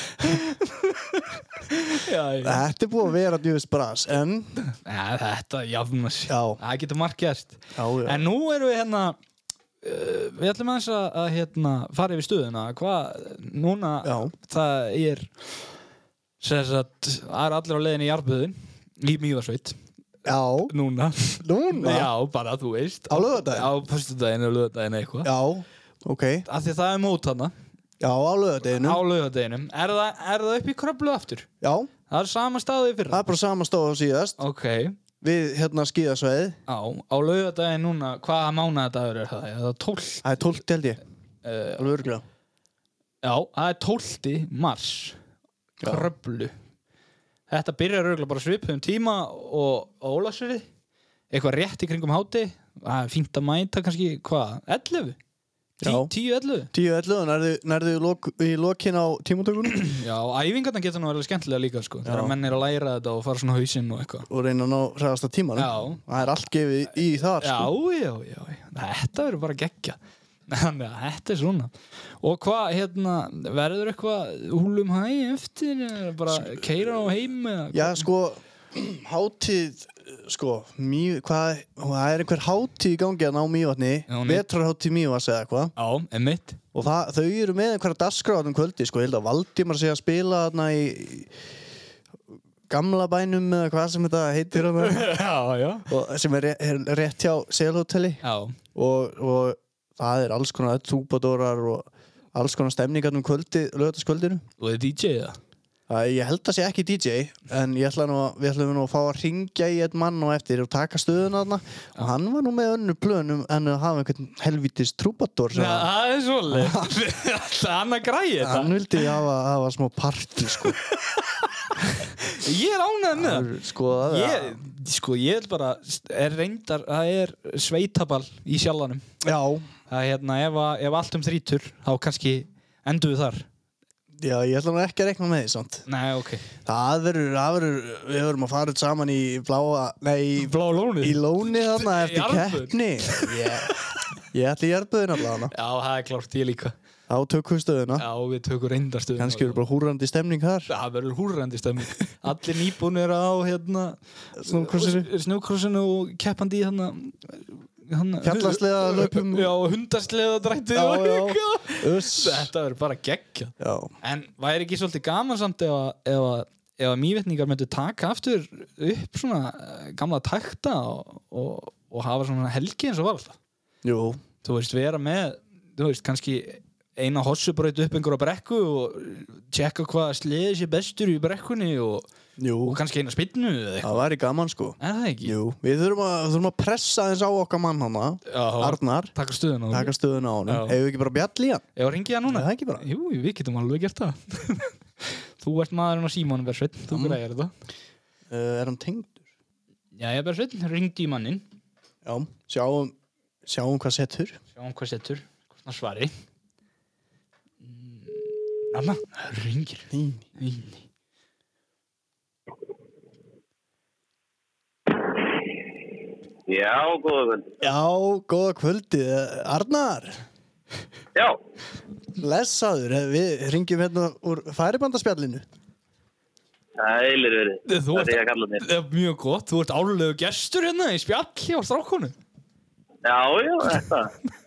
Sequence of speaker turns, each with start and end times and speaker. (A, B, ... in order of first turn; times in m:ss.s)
0:00.2-0:02.6 A
0:02.4-0:04.6 B
0:04.7-0:09.2 A
0:06.3-0:06.6 B
0:07.8-0:08.2 B
0:09.8-0:15.6 A
0:14.0-0:14.3 B
0:16.4-0:19.8 A
0:20.2-0:20.7 B
0:20.7-0:25.3 A
0:21.4-0:22.1 B
0:23.1-0:23.7 B
0:25.2-0:26.4 B
0:26.5-0:27.5 A
0:28.0-0:29.0 B
0:28.7-0:31.5 A
0:31.6-0:31.9 B
0:32.1-0:33.3 A
0:33.1-0:34.4 B
0:34.4-0:35.0 A
0:35.2-0:36.6 B
0:36.7-0:40.4 A
0:40.2-0:41.0 B
0:41.4-0:41.8 A
0:41.7-0:42.2 B
0:43.2-0:45.2 A
0:45.8-0:46.1 B
0:45.8-0:46.5 A
0:47.5-0:50.7 A
0:51.3-0:55.2 A
0:55.8-0:56.1 B
0:55.8-0:56.7 A
0:56.7-0:59.9 B
0:59.7-1:04.3 A
1:02.0-1:02.4 B
1:04.3-1:07.7 B
1:05.6-1:06.2 A
1:07.4-1:18.1 A
1:17.7-1:25.7 B
1:24.1-1:24.5 A
1:25.8-1:26.6 A
1:26.7-1:31.3 B
1:32.7-1:35.1 B
1:34.7-1:35.9 A
1:35.9-1:38.2 B
1:38.2-1:38.6 A
1:38.7-1:44.4 B
1:44.6-1:45.4 A
1:45.9-1:55.9 B
1:55.5-1:59.1 A
1:56.5-1:56.9 B
1:58.4-2:00.8 B
2:00.6-2:03.5 A
2:03.1-2:04.6 B
2:04.0-2:09.0 A
2:09.2-2:09.7 B
2:09.9-2:13.4 A
2:14.2-2:15.8 B
2:15.9-2:16.4 A
2:16.6-2:23.8 B
2:20.4-2:23.5 A
2:24.3-2:25.5 B
2:25.5-2:26.7 A
2:27.1-2:28.0 B
2:28.0-2:29.6 A
2:29.2-2:30.7 B
2:30.7-2:53.4 A
2:34.4-2:35.1 B
2:38.2-2:39.5 B
2:40.7-2:42.5 B
2:43.6-2:43.9 B
2:53.8-2:54.2 B
2:54.4-3:02.1 A
3:02.4-3:02.8 B
3:02.6-3:04.0 A
3:03.8-3:09.1 B
3:04.8-3:05.3 A
3:08.3-3:09.9 A
3:09.7-3:11.6 B
3:10.5-3:10.8 A
3:11.8-3:17.5 A
3:12.2-3:12.8 B
3:16.9-3:17.2 B
3:18.3-3:19.2 B
3:20.0-3:21.4 A
3:22.0-3:22.9 B
3:23.4-3:24.4 B
3:24.6-3:26.1 A
3:27.6-3:30.8 A
3:29.9-3:30.2 B
3:36.5-3:37.6 C
3:37.6-3:40.2 B
3:42.2-3:45.4 B
3:46.8-3:48.7 C
3:47.6-3:52.1 A
3:53.0-3:54.1 C